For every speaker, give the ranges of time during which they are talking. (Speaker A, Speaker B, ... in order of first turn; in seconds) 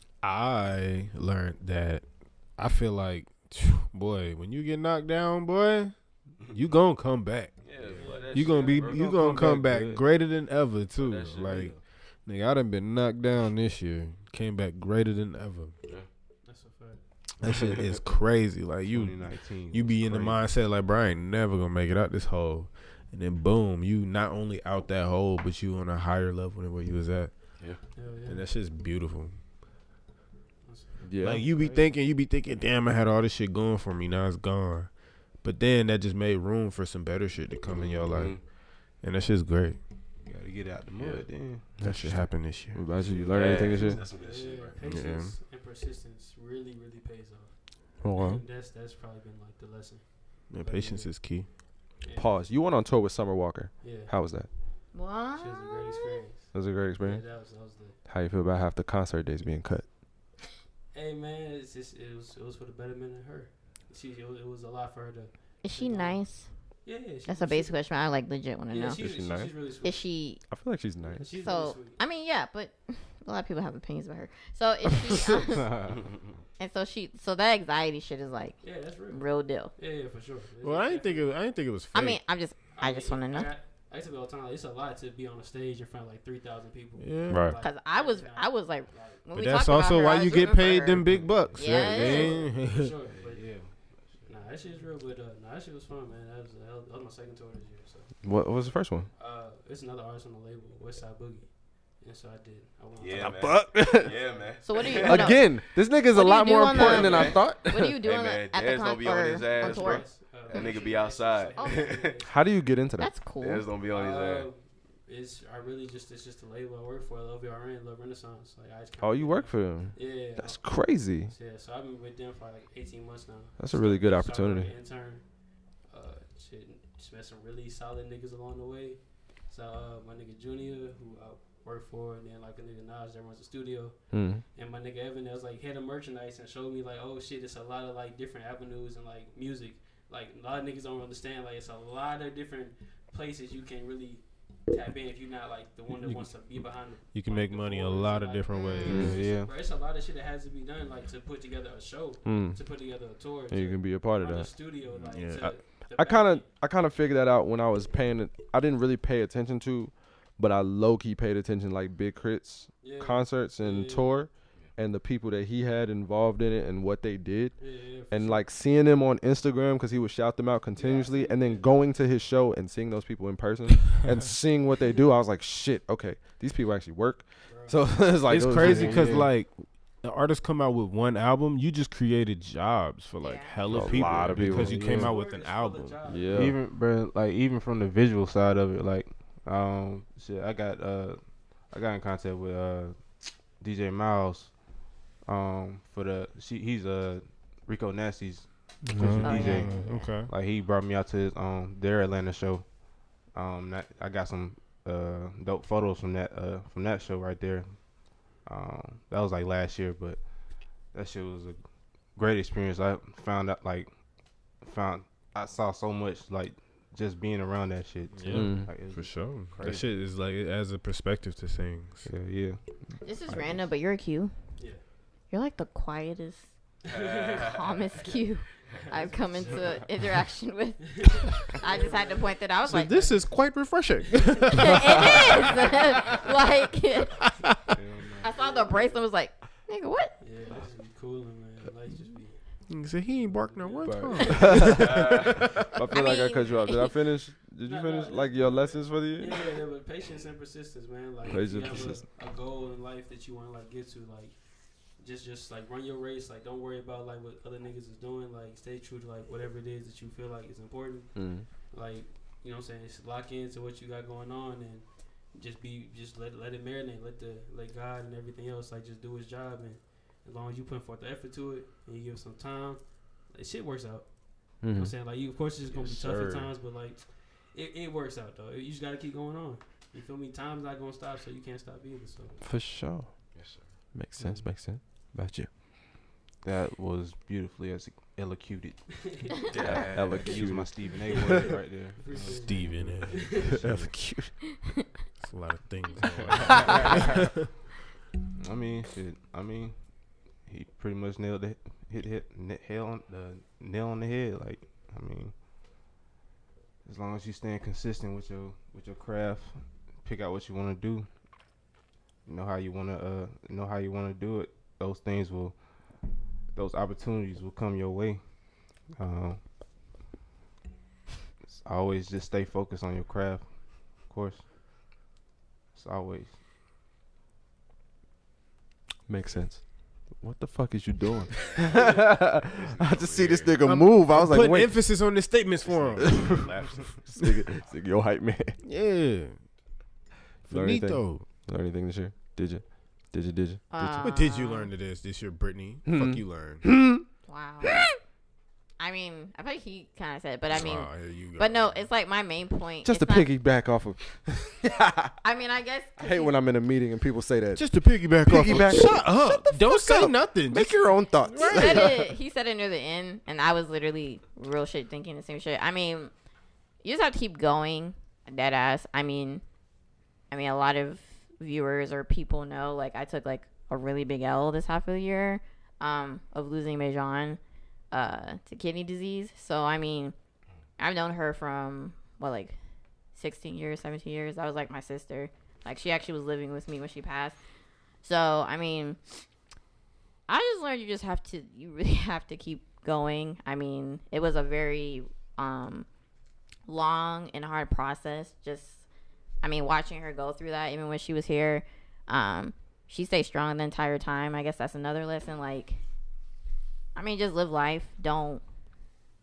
Speaker A: 0.2-7.6, 8.3-15.7, 17.4-27.5, 28.2-29.4, 31.2-39.8, 41.8-42.8, 44.8-45.4, 50.5-51.5, 80.6-82.2, 87.0-87.5, 89.3-92.9, 146.0-149.2, 154.9-155.6, 178.2-186.1, 198.8-200.3, 218.1-222.1, 232.7-235.3, 242.7-245.3, 292.3-293.9, 295.2-297.4, 333.6-336.7, 338.6-339.4, 340.5-341.3, 344.0-346.7, 350.5-351.9, 357.5-361.9
Speaker B: 7.6-9.1, 11.0-11.8, 38.1-38.4, 41.0-41.2, 43.2-44.8, 103.0-105.4, 106.7-112.2, 113.4-114.5, 226.9-228.1, 244.6-245.5, 251.3-251.8, 283.3-283.8, 289.5-290.4, 331.3-333.6, 335.6-337.1
Speaker C: 7.8-10.0, 11.5-11.8, 18.9-20.4, 40.2-42.0, 42.9-44.0, 75.5-76.0, 90.9-92.1, 93.0-94.8, 148.9-149.5, 178.3-179.3, 184.3-185.2, 186.3-194.6, 195.2-211.6, 212.1-219.9, 222.0-222.6, 237.7-238.5, 286.4-288.8, 289.5-293.9, 296.3-297.2, 298.4-299.8, 300.4-305.3, 306.8-311.1, 312.2-315.6, 316.5-318.2, 318.9-319.4, 321.5-324.4, 325.7-326.4
Speaker D: 7.9-8.9, 16.4-17.1, 27.9-28.5, 30.6-31.9, 44.0-51.2, 52.0-52.4, 53.8-54.1, 55.3-58.0, 60.9-66.2, 66.8-67.8, 68.7-70.1, 71.0-72.0, 78.6-81.4, 82.7-89.2, 91.8-93.7, 94.2-98.1, 99.1-103.5, 109.5-112.7, 113.9-156.5, 162.8-164.2, 167.6-168.4, 170.7-171.7, 177.4-178.0, 184.8-186.4, 224.6-224.8, 226.8-228.2, 228.8-229.8, 230.8-232.5, 234.1-234.4, 238.3-239.0, 240.2-242.5, 243.2-244.6, 247.6-282.4, 288.9-289.5, 291.1-293.6
Speaker E: 31.0-31.5, 41.8-44.0, 48.0-48.4, 52.1-54.5, 56.5-57.2, 58.0-59.9, 69.0-69.5, 70.4-71.4, 98.2-99.1, 103.2-104.2, 105.0-108.0, 112.2-113.2, 119.0-121.3, 123.6-124.7, 134.1-134.4, 148.8-149.2, 152.2-152.7, 153.5-154.7, 155.3-179.3, 183.7-185.0, 186.0-186.6, 198.9-199.5, 218.3-218.7, 243.8-249.4, 251.2-252.1, 261.1-261.5, 274.6-274.9, 275.7-276.5, 282.4-283.1, 283.9-285.5, 289.7-291.5, 293.4-294.4, 329.1-334.8, 336.0-336.5, 337.1-338.6, 340.4-344.1, 345.8-347.0, 352.8-355.1, 356.0-362.1
Speaker F: 54.9-56.2, 65.6-69.1, 69.8-70.5, 71.3-75.7, 76.6-79.7, 81.9-83.5, 87.6-92.4, 104.6-105.6, 106.1-110.7, 111.5-111.9, 113.0-113.6, 183.2-183.6, 199.2-199.9, 223.0-224.3, 225.3-226.5, 227.4-233.2, 234.5-237.3, 238.2-240.2, 245.9-246.9, 343.7-344.7, 347.3-347.8, 348.8-353.3, 355.2-356.3, 361.3-366.1, 366.8-369.4, 370.3-377.4, 377.9-380.1, 380.8-382.6, 383.1-387.4, 388.0-389.0, 390.3-395.9, 396.7-398.8, 399.4-405.8, 406.9-408.4